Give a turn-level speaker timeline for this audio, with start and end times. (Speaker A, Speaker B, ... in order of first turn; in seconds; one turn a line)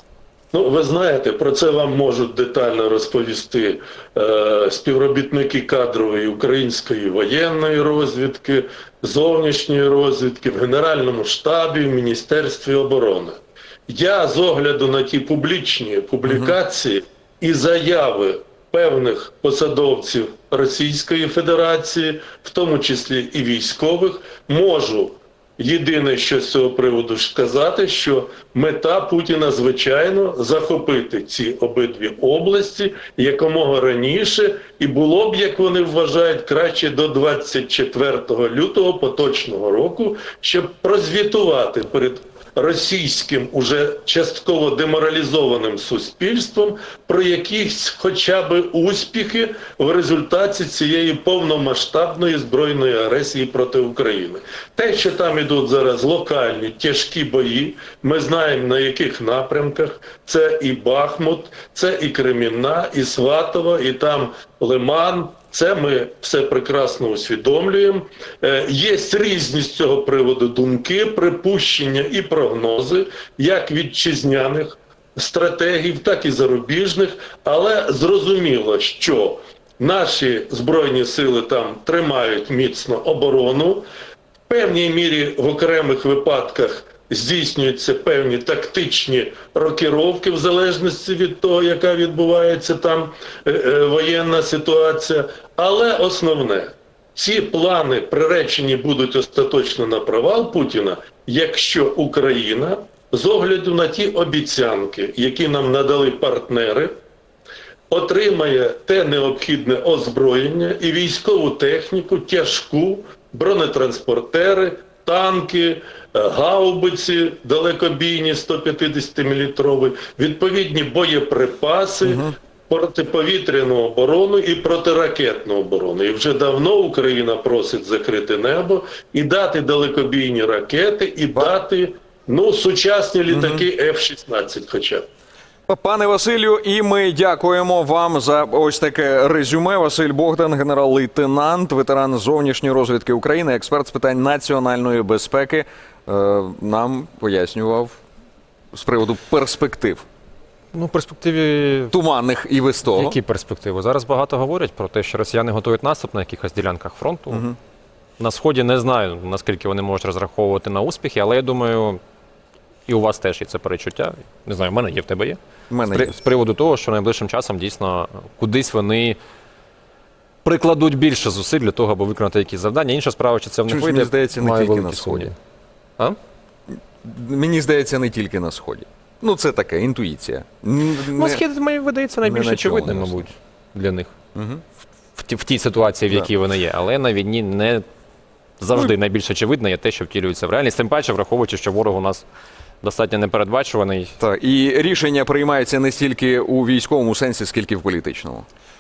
Speaker A: 0.5-83.8
Speaker B: 16.2-16.6
Speaker A: 84.5-107.0
Speaker A: 107.9-135.1
Speaker B: 122.0-122.4
Speaker B: 133.3-133.7
Speaker B: 135.7-148.0
Speaker B: 148.7-150.1
Speaker C: 150.7-151.9
Speaker B: 151.9-153.2
Speaker C: 152.9-157.4
Speaker B: 157.3-157.6
Speaker C: 158.2-162.0
Speaker C: 162.9-169.2
Speaker B: 165.7-166.1
Speaker C: 170.4-175.3
Speaker B: 173.7-175.3
Speaker B: 176.7-181.4
Speaker C: 181.1-184.1
Speaker B: 182.2-183.3
Speaker B: 184.3-184.6
Speaker C: 185.2-187.8
Speaker C: 188.6-192.2
Speaker C: 192.8-194.2
Speaker B: 194.2-198.5